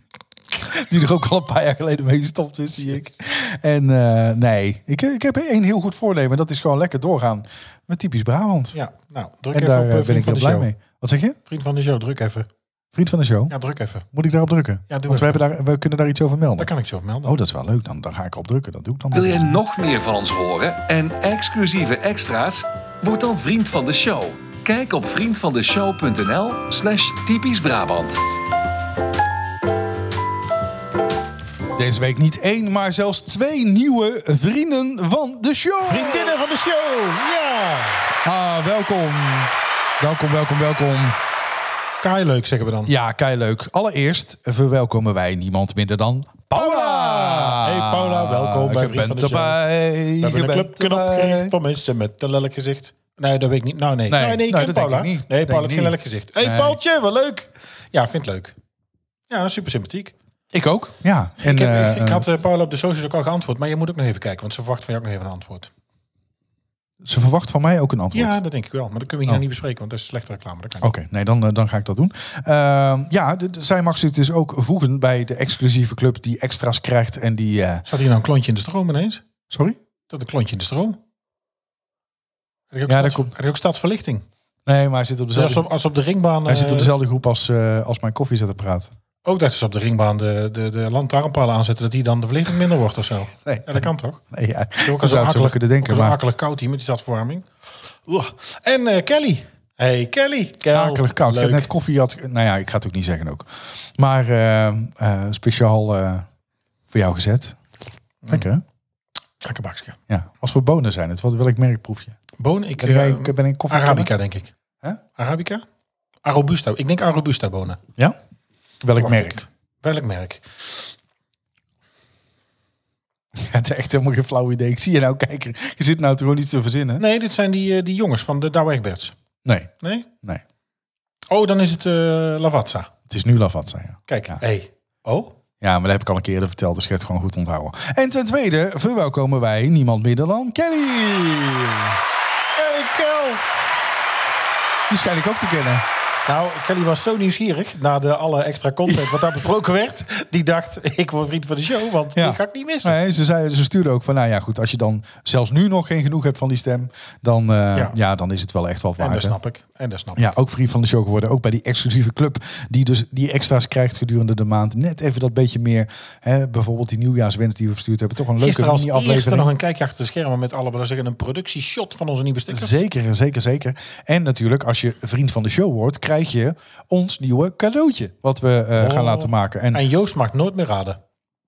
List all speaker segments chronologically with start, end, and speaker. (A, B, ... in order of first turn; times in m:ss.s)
0:00.5-0:08.8 A
0:08.7-0:10.7 B
0:09.5-0:11.4 A
0:11.5-0:12.5 B
0:12.9-0:13.5 A
0:13.5-0:14.1 B
0:14.1-0:16.7 A
0:14.9-0:15.4 B
0:16.6-0:17.4 B
0:17.2-0:19.6 A
0:19.1-0:28.2 C
0:31.8-0:36.4 A
0:35.8-0:38.1 B
0:38.2-0:41.2 A
0:42.0-0:42.9 B
0:42.9-0:51.5 A
0:46.5-0:49.6 B
0:50.2-0:58.6 B
0:54.1-0:56.8 A
0:59.3-1:00.1 B
1:00.5-1:02.3 A
1:01.4-1:05.7 B
1:07.0-1:08.4 A
1:08.1-1:10.9 B
1:10.8-1:17.9 A
1:17.9-1:19.2 B
1:19.5-1:19.8 A
1:20.1-1:21.0 B
1:22.7-1:24.2 B
1:22.9-1:23.3 A
1:24.7-1:25.7 A
1:25.3-1:26.9 B
1:26.5-1:28.9 A
1:29.2-1:34.2 B
1:33.4-1:36.2 A
1:34.8-1:37.5 B
1:38.1-1:41.7 B
1:40.7-1:46.3 A
1:46.9-1:47.6 A
1:48.2-1:48.5 B
1:48.3-1:48.6 A
1:49.4-1:50.0 B
1:50.1-1:52.2 A
1:52.4-1:54.5 B
1:52.8-1:54.1 A
1:55.2-1:55.6 B
1:56.2-1:57.8 B
1:58.8-1:59.4 A
1:59.0-2:00.9 B
2:03.4-2:07.0 A
2:07.0-2:09.2 B
2:09.4-2:09.7 A
2:09.8-2:10.1 B
2:11.3-2:12.9 B
2:13.1-2:14.4 A
2:14.1-2:15.4 B
2:15.6-2:22.0 A
2:22.6-2:23.4 B
2:24.9-2:25.8 A
2:26.3-2:33.0 B
2:28.9-2:29.3 A
2:32.2-2:39.4 A
2:39.0-2:40.4 B
2:40.2-2:49.5 A
2:48.4-2:52.8 B
2:52.5-2:59.8 A
2:58.8-3:01.0 B